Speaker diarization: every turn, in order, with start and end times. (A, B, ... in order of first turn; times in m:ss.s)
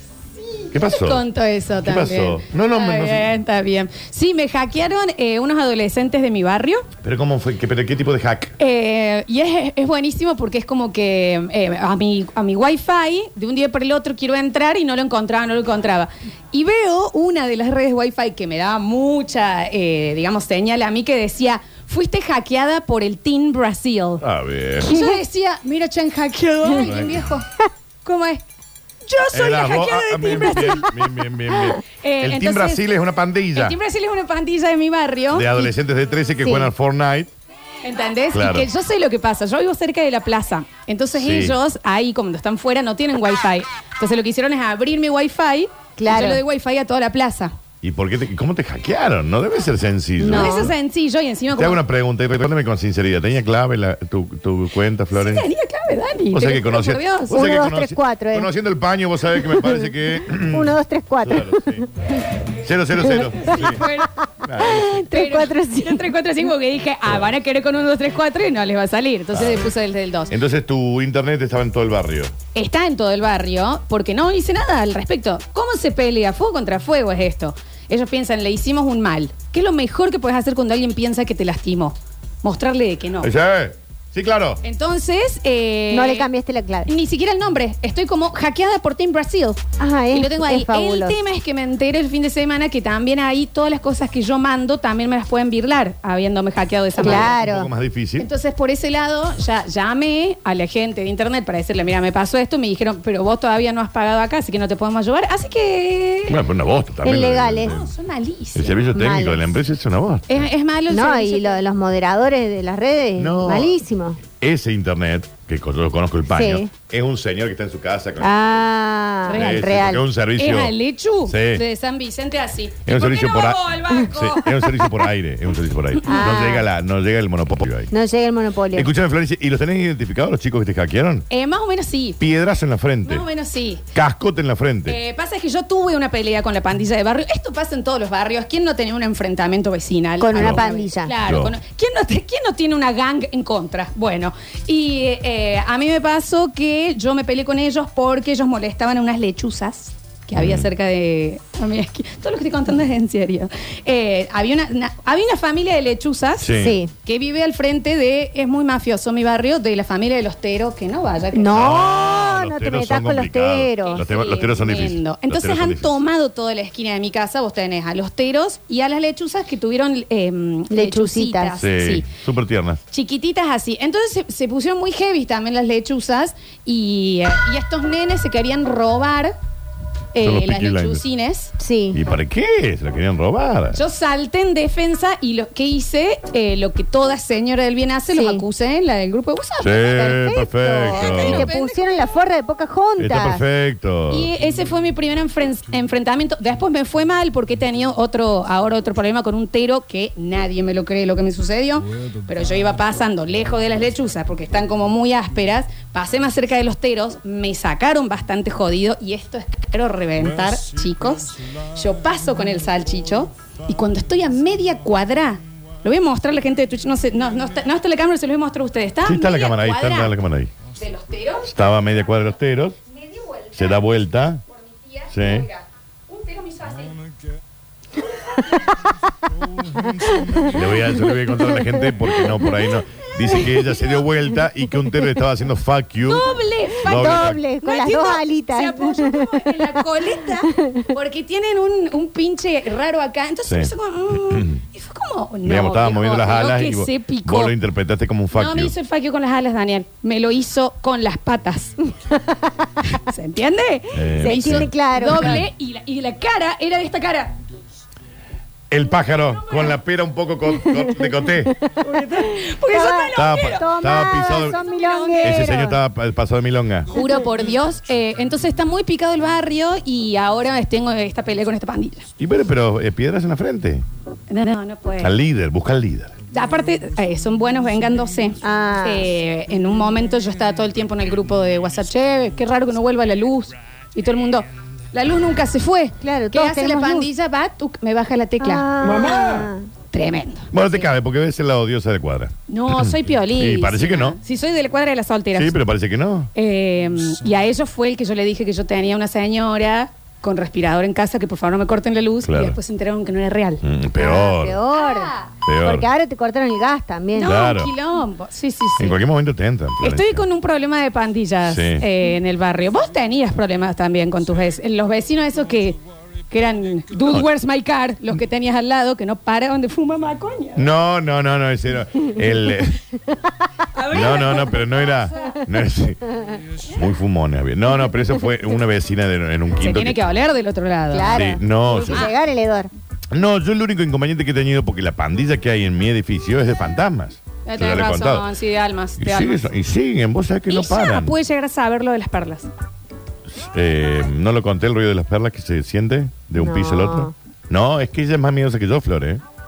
0:00.3-0:06.9 A
0:00.7-0:01.2 B
0:01.8-0:03.3 B
0:07.0-0:08.5 B
0:08.6-0:24.2 A
0:24.2-0:24.9 B
0:24.8-0:27.5 A
0:24.9-0:25.2 C
0:26.7-0:27.3 B
0:28.0-0:28.4 A
0:29.0-0:30.9 A
0:29.3-0:33.8 B
0:31.5-0:32.9 A
0:33.5-0:35.7 A
0:35.3-0:37.3 B
0:36.4-0:36.7 C
0:37.8-0:47.5 A
0:38.3-0:38.7 B
0:41.1-0:41.6 B
0:46.0-0:46.4 C
0:47.8-0:50.7 B
0:50.2-0:50.7 C
0:50.2-0:51.8 A
0:51.5-0:55.5 B
0:55.1-0:57.4 A
0:56.3-1:01.8 B
0:57.3-0:58.5 C
0:59.4-1:01.9 C
1:02.6-1:03.8 B
1:03.4-1:04.1 A
1:04.4-1:05.1 B
1:04.6-1:06.0 C
1:04.6-1:10.3 A
1:09.3-1:09.7 B
1:10.3-1:12.3 B
1:12.5-1:23.3 A
1:23.2-1:24.6 B
1:24.6-1:26.3 A
1:25.9-1:26.9 C
1:26.9-1:29.6 A
1:29.8-1:31.2 C
1:30.1-1:37.3 A
1:37.0-1:37.7 C
1:37.0-1:38.3 B
1:38.2-1:46.4 A
1:46.3-1:47.9 B
1:47.0-1:47.8 C
1:47.6-1:48.9 A
1:48.5-1:50.5 B
1:48.9-1:49.4 C
1:50.3-1:51.6 A
1:50.9-1:54.2 C
1:53.2-1:53.7 B
1:54.3-1:58.5 B
1:56.3-1:56.7 C
1:58.2-2:00.0 C
1:59.2-2:04.8 A
1:59.3-2:00.7 B
2:01.2-2:01.6 B
2:02.8-2:07.9 B
2:06.0-2:06.7 C
2:07.9-2:08.9 C
2:08.7-2:11.2 B
2:11.3-2:12.2 A
2:12.2-2:13.2 B
2:13.0-2:13.8 A
2:13.9-2:15.0 B
2:14.8-2:36.5 A
2:20.2-2:21.1 C
2:20.4-2:20.6 B
2:21.2-2:21.6 B
2:30.3-2:30.7 B
2:36.4-2:36.8 B
2:36.6-2:36.9 C
2:37.0-2:41.5 A
2:41.3-2:44.0 C
2:41.5-2:46.0 B
2:43.8-2:52.0 A
2:50.7-2:51.5 C
2:51.6-2:52.8 B
2:52.9-2:59.3 A
3:00.1-3:01.5 A
3:00.2-3:01.0 B
3:01.6-3:02.0 C
3:01.9-3:03.8 B
3:03.7-3:10.1 A
3:08.1-3:08.4 C
3:09.6-3:11.5 B
3:09.9-3:13.4 C
3:10.8-3:11.8 A
3:13.0-3:14.3 B
3:14.1-3:40.1 A
3:39.0-3:40.5 B
3:40.7-3:41.5 A
3:41.4-3:42.8 B
3:42.9-3:43.8 A
3:43.5-3:44.4 B
3:44.5-3:47.0 A
3:45.1-3:45.5 B
3:49.8-3:52.4 C
3:50.4-3:57.4 B
3:53.3-3:54.0 A
3:56.0-4:07.6 A
3:56.8-4:00.9 C
4:03.4-4:04.6 B
4:05.4-4:08.7 B
4:08.3-4:11.8 A
4:12.8-4:17.4 A
4:13.9-4:15.4 B
4:14.2-4:15.4 C
4:18.7-4:21.6 B
4:19.2-4:19.8 A
4:20.7-4:25.8 C
4:21.8-4:25.6 A
4:23.1-4:24.6 B
4:25.2-4:26.9 B
4:26.9-4:32.1 A
4:32.2-4:33.8 B
4:34.3-4:35.2 A
4:35.0-4:36.2 B
4:36.3-4:49.3 A
4:38.4-4:39.1 C
4:46.0-4:47.1 C
4:48.4-4:49.7 C
4:49.9-4:50.7 A
4:50.5-4:54.2 B
4:52.5-4:55.6 A
4:55.3-4:56.3 B
4:56.3-5:03.6 A
5:02.2-5:02.6 B
5:03.6-5:04.6 B
5:04.0-5:05.1 C
5:04.7-5:05.3 A
5:05.4-5:05.9 B
5:05.6-5:07.4 C
5:07.1-5:09.0 A
5:07.2-5:07.7 B
5:08.8-5:10.2 B
5:09.8-5:15.8 A
5:11.4-5:11.9 B
5:16.3-5:20.6 A
5:20.5-5:22.8 B
5:23.7-5:25.4 A
5:23.9-5:26.1 B
5:26.7-5:30.0 B
5:29.6-5:31.3 A
5:30.9-5:32.7 C
5:31.1-5:32.1 B
5:31.9-5:32.1 A
5:33.1-5:38.3 B
5:37.4-5:39.4 A
5:39.0-5:41.1 B
5:40.5-5:42.5 A
5:43.3-5:49.2 B
5:46.4-5:47.1 C